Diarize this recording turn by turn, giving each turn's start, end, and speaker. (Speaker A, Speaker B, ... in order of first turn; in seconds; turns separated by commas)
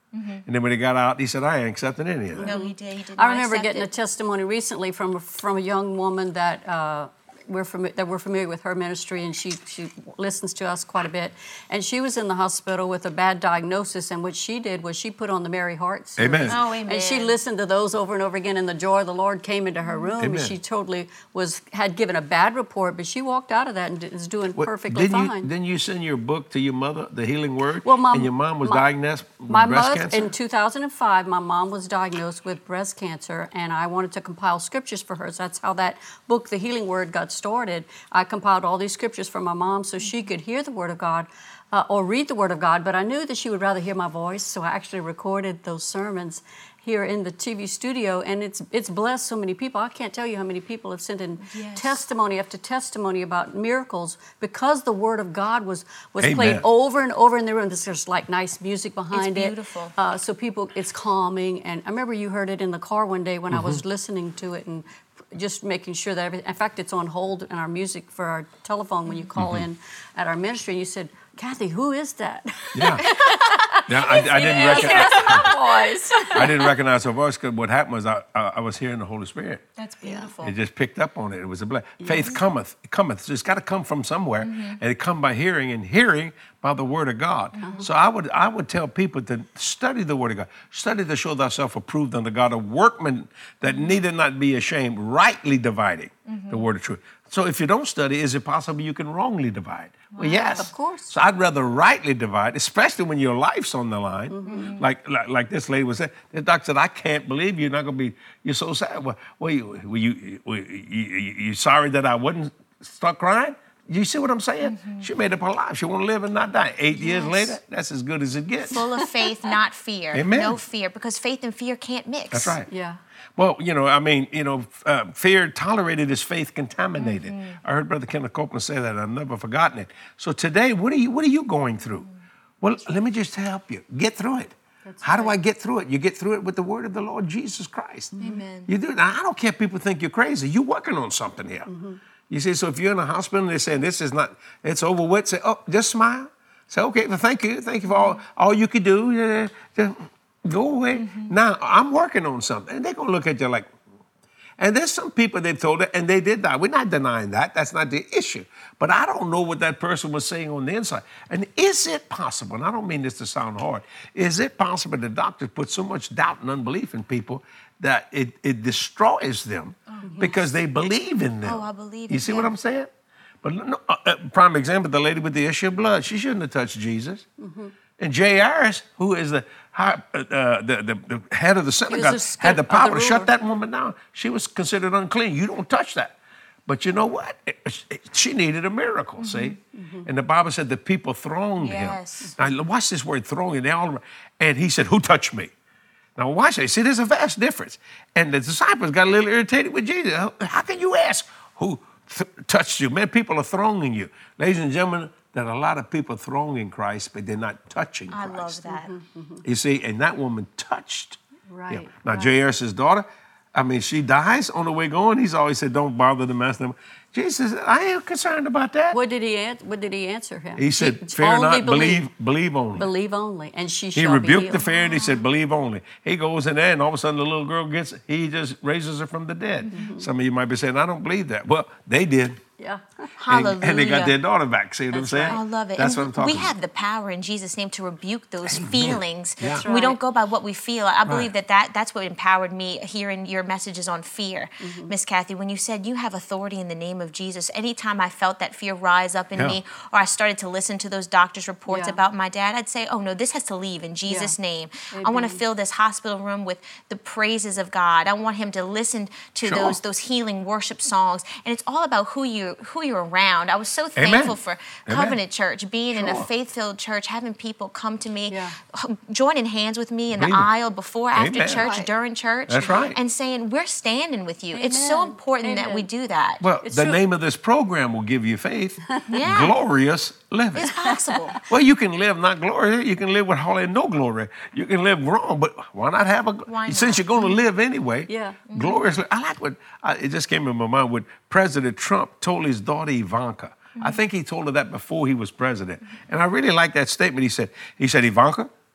Speaker A: 0.1-0.4, Speaker B: 0.5-2.5, Speaker C: 2.3-25.5, Speaker A: 2.4-3.9, Speaker B: 16.2-16.6, Speaker A: 16.5-17.3, Speaker B: 20.2-20.6, Speaker B: 24.6-30.3, Speaker C: 27.8-28.9, Speaker C: 29.5-76.5, Speaker A: 51.5-52.0, Speaker B: 56.2-56.6, Speaker A: 59.1-59.9, Speaker B: 63.5-63.8, Speaker B: 69.4-69.7, Speaker B: 72.7-73.1, Speaker A: 73.1-75.7, Speaker B: 73.9-75.5, Speaker B: 76.3-79.6, Speaker A: 79.8-80.5, Speaker C: 80.0-80.3, Speaker B: 80.4-118.8, Speaker C: 82.0-82.3, Speaker A: 84.4-84.8, Speaker A: 87.5-87.9, Speaker C: 87.6-87.9, Speaker A: 93.7-94.0, Speaker A: 96.2-96.7, Speaker A: 100.1-100.7, Speaker C: 100.5-101.1, Speaker C: 104.3-104.7, Speaker A: 104.4-104.8, Speaker A: 114.6-115.1, Speaker A: 117.0-117.5, Speaker A: 118.7-122.6, Speaker B: 120.1-120.6, Speaker B: 122.3-122.7, Speaker C: 122.7-123.0, Speaker B: 123.4-132.1, Speaker A: 127.0-127.6, Speaker B: 132.6-138.1, Speaker C: 134.8-135.4, Speaker C: 138.2-138.4, Speaker A: 138.2-138.7, Speaker B: 138.7-141.7, Speaker C: 141.7-142.0, Speaker B: 142.3-153.7, Speaker A: 150.9-151.3, Speaker B: 154.6-172.9, Speaker A: 169.9-170.4, Speaker C: 170.0-170.3, Speaker A: 171.4-172.5, Speaker B: 173.4-177.2, Speaker C: 177.4-177.7, Speaker B: 178.0-195.5, Speaker C: 181.9-183.3, Speaker A: 189.2-189.5, Speaker C: 189.7-190.1, Speaker A: 191.6-192.3, Speaker B: 196.2-208.6, Speaker A: 208.1-208.9, Speaker C: 208.7-209.4, Speaker B: 209.4-211.2, Speaker C: 211.5-212.3, Speaker B: 211.7-219.0, Speaker C: 218.9-222.0, Speaker B: 220.6-222.9, Speaker C: 222.7-224.6, Speaker B: 223.9-232.4, Speaker A: 224.6-225.2, Speaker A: 229.6-229.9, Speaker C: 229.7-230.1, Speaker C: 232.6-233.1, Speaker A: 233.2-234.2, Speaker B: 233.3-236.5, Speaker C: 234.9-235.4, Speaker A: 235.3-276.4, Speaker B: 238.4-239.7, Speaker C: 239.6-240.0, Speaker C: 244.6-244.9, Speaker C: 251.7-252.0, Speaker C: 254.1-254.3, Speaker C: 254.9-255.4, Speaker B: 259.4-259.8, Speaker B: 263.9-265.2, Speaker B: 265.9-266.3, Speaker C: 268.3-268.6, Speaker B: 270.1-270.5, Speaker B: 271.1-271.7, Speaker C: 271.6-271.9, Speaker B: 272.5-273.0, Speaker C: 274.5-275.9, Speaker B: 276.4-280.7, Speaker C: 276.6-277.0, Speaker A: 279.1-279.5, Speaker A: 280.5-281.4, Speaker C: 280.8-281.4, Speaker B: 281.4-298.5, Speaker A: 286.5-287.4, Speaker C: 288.1-288.4, Speaker A: 288.5-288.9